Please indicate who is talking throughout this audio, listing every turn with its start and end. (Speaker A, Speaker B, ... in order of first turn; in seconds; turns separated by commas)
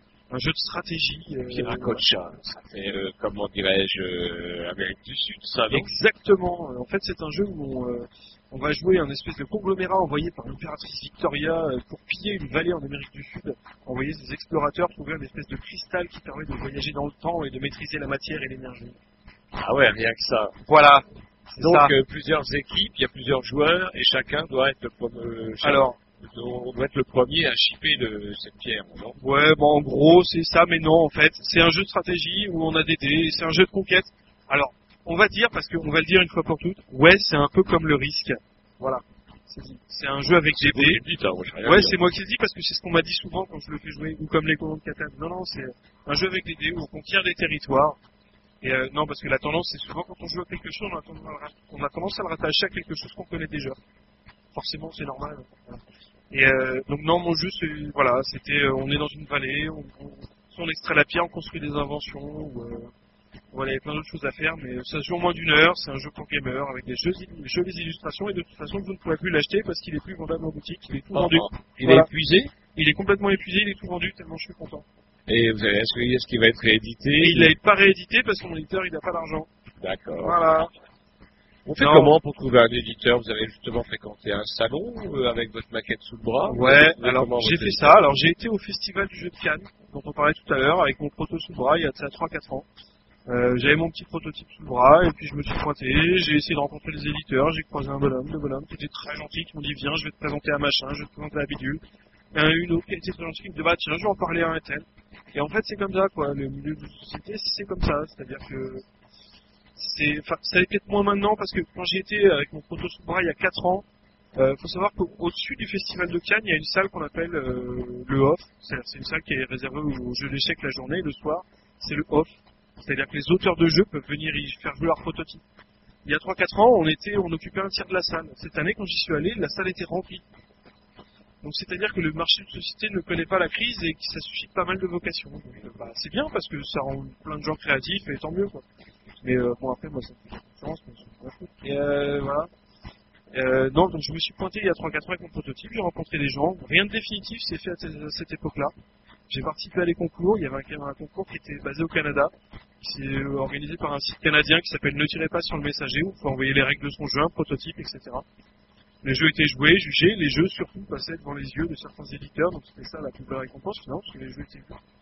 Speaker A: 0.3-2.0, Speaker B: 1.5-5.9, Speaker A: 5.7-18.9, Speaker B: 19.6-20.5, Speaker A: 20.6-21.9, Speaker B: 21.6-29.2, Speaker A: 25.6-26.0, Speaker A: 29.2-41.0, Speaker B: 40.6-42.0, Speaker A: 41.6-48.0, Speaker A: 48.6-53.8, Speaker A: 54.5-62.9, Speaker A: 63.5-72.1, Speaker B: 71.1-72.5, Speaker A: 72.7-74.8, Speaker B: 75.3-77.5, Speaker A: 77.2-79.5, Speaker B: 79.8-80.4, Speaker A: 80.2-80.7, Speaker B: 81.7-88.0, Speaker A: 81.8-82.2, Speaker A: 86.5-92.7, Speaker A: 93.3-101.8, Speaker A: 102.3-108.8, Speaker A: 109.8-113.8, Speaker A: 114.4-125.4, Speaker A: 126.0-130.2, Speaker A: 131.4-138.6, Speaker A: 139.2-142.5, Speaker A: 143.3-148.7, Speaker A: 149.3-158.2, Speaker A: 159.0-164.8